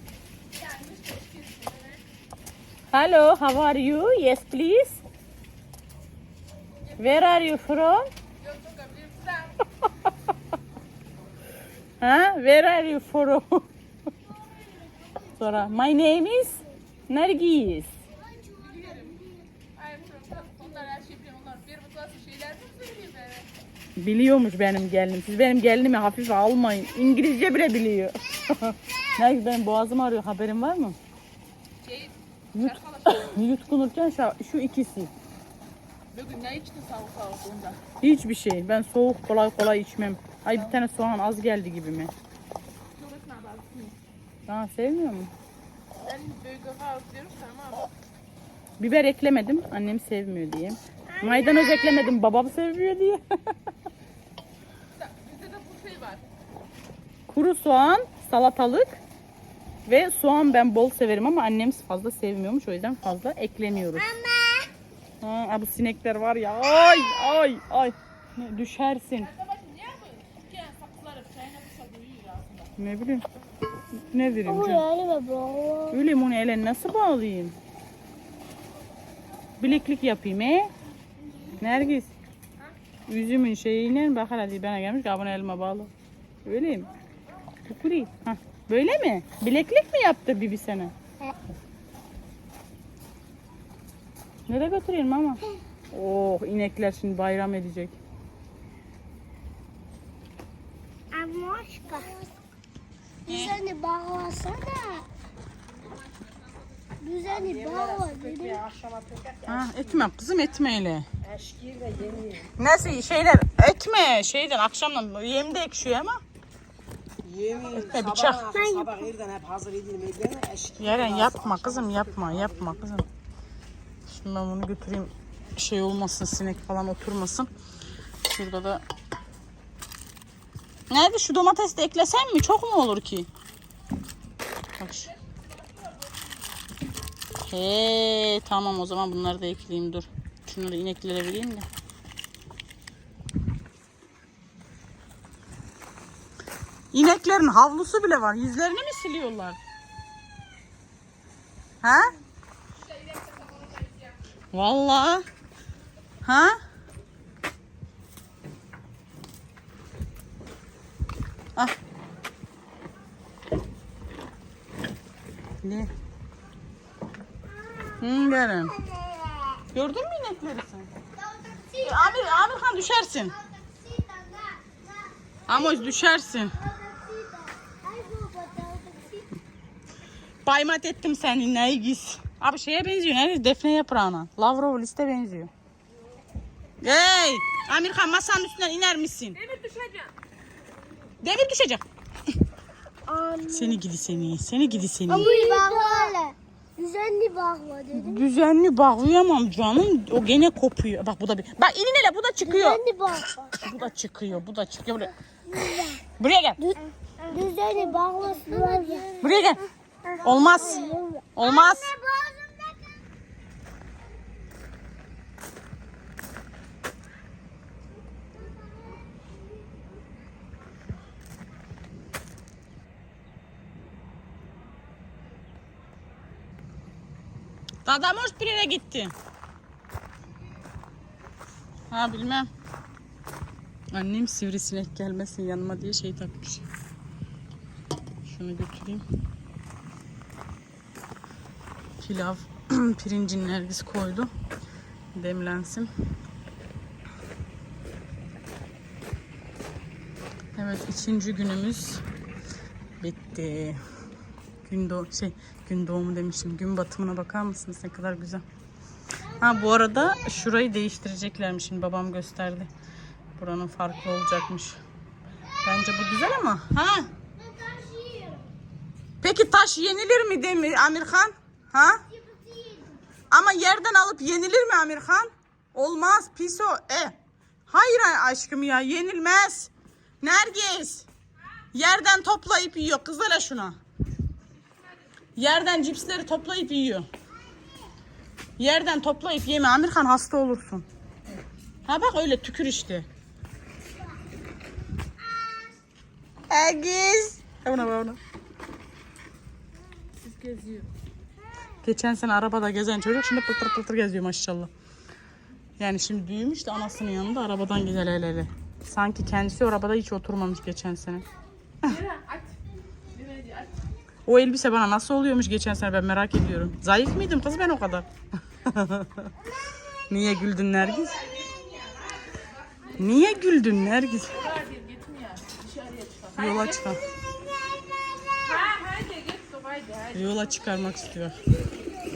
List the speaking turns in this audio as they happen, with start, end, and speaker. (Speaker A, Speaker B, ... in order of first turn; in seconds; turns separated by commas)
Speaker A: 0.5-2.0, Speaker B: 2.9-5.0, Speaker A: 6.9-7.4, Speaker B: 7.0-8.1, Speaker A: 8.4-9.6, Speaker B: 12.0-13.7, Speaker C: 14.9-15.3, Speaker B: 15.4-17.9, Speaker C: 18.1-19.4, Speaker A: 18.6-19.2, Speaker A: 19.8-23.5, Speaker B: 24.0-31.0, Speaker A: 31.8-33.4, Speaker B: 32.5-35.1, Speaker A: 36.1-37.8, Speaker B: 38.0-42.1, Speaker A: 42.9-44.0, Speaker B: 44.5-45.3, Speaker A: 46.0-47.9, Speaker B: 48.8-53.5, Speaker C: 51.1-52.1, Speaker A: 55.0-56.2, Speaker B: 57.3-59.0, Speaker B: 59.9-64.1, Speaker C: 64.0-64.7, Speaker B: 65.2-69.3, Speaker A: 69.2-72.7, Speaker B: 72.8-73.2, Speaker B: 73.9-74.8, Speaker C: 74.4-76.0, Speaker B: 75.9-77.5, Speaker B: 79.6-80.7, Speaker B: 81.6-82.1, Speaker B: 83.1-85.9, Speaker B: 86.4-86.9, Speaker B: 87.7-90.9, Speaker B: 94.5-98.0, Speaker C: 101.1-102.2, Speaker C: 103.2-105.0, Speaker B: 103.3-103.5, Speaker A: 106.0-106.3, Speaker C: 107.0-108.6, Speaker D: 107.2-110.1, Speaker B: 109.5-111.1, Speaker D: 111.2-112.5, Speaker B: 112.6-116.2, Speaker D: 117.2-122.9, Speaker B: 117.7-118.4, Speaker C: 118.5-119.0, Speaker B: 120.8-123.1, Speaker B: 124.1-127.5, Speaker B: 128.2-128.8, Speaker B: 130.9-133.3, Speaker B: 134.8-135.1, Speaker A: 135.2-136.2, Speaker B: 137.4-141.7, Speaker B: 146.9-149.6, Speaker B: 151.8-152.1, Speaker A: 152.8-154.2, Speaker B: 154.5-155.2, Speaker B: 156.2-156.6, Speaker B: 165.6-165.9, Speaker C: 167.7-168.0, Speaker B: 168.0-168.7, Speaker C: 168.7-169.6, Speaker B: 169.7-170.9, Speaker C: 171.1-172.5, Speaker B: 171.8-173.3, Speaker C: 173.2-179.3, Speaker B: 175.5-176.5, Speaker B: 180.4-185.5, Speaker B: 186.8-189.4, Speaker A: 189.4-190.1, Speaker B: 191.2-191.8, Speaker C: 193.1-193.8, Speaker B: 193.5-195.3, Speaker C: 195.1-198.2, Speaker A: 195.4-195.8, Speaker B: 197.9-202.8, Speaker C: 202.4-203.6, Speaker B: 203.5-205.1, Speaker C: 205.5-206.0, Speaker B: 206.2-206.6, Speaker C: 206.6-212.9, Speaker B: 209.2-209.6, Speaker B: 210.2-211.9, Speaker B: 227.8-229.1, Speaker B: 231.9-232.5, Speaker B: 233.9-236.7, Speaker B: 238.2-239.0, Speaker B: 242.0-244.3, Speaker B: 245.1-245.9, Speaker B: 250.6-252.0, Speaker B: 253.0-253.8, Speaker B: 254.6-258.4, Speaker C: 259.3-259.7, Speaker B: 259.4-262.7, Speaker B: 263.4-264.8, Speaker C: 265.5-266.4, Speaker B: 265.6-267.1, Speaker C: 267.2-268.4, Speaker B: 269.2-272.0, Speaker C: 272.1-273.0, Speaker B: 273.3-277.1, Speaker B: 277.7-279.7, Speaker B: 280.2-281.1, Speaker B: 281.7-283.8, Speaker B: 285.4-287.1, Speaker B: 288.6-290.9, Speaker B: 291.9-293.1, Speaker B: 296.5-298.2, Speaker A: 300.2-300.9, Speaker B: 301.8-304.7, Speaker B: 305.8-311.2, Speaker A: 311.8-312.6, Speaker A: 313.1-313.8, Speaker B: 314.2-319.3, Speaker B: 320.1-321.2, Speaker A: 320.9-323.4, Speaker B: 323.0-324.3, Speaker A: 324.3-326.9, Speaker B: 326.4-327.0, Speaker C: 327.4-328.5, Speaker A: 328.4-330.5, Speaker B: 330.1-331.4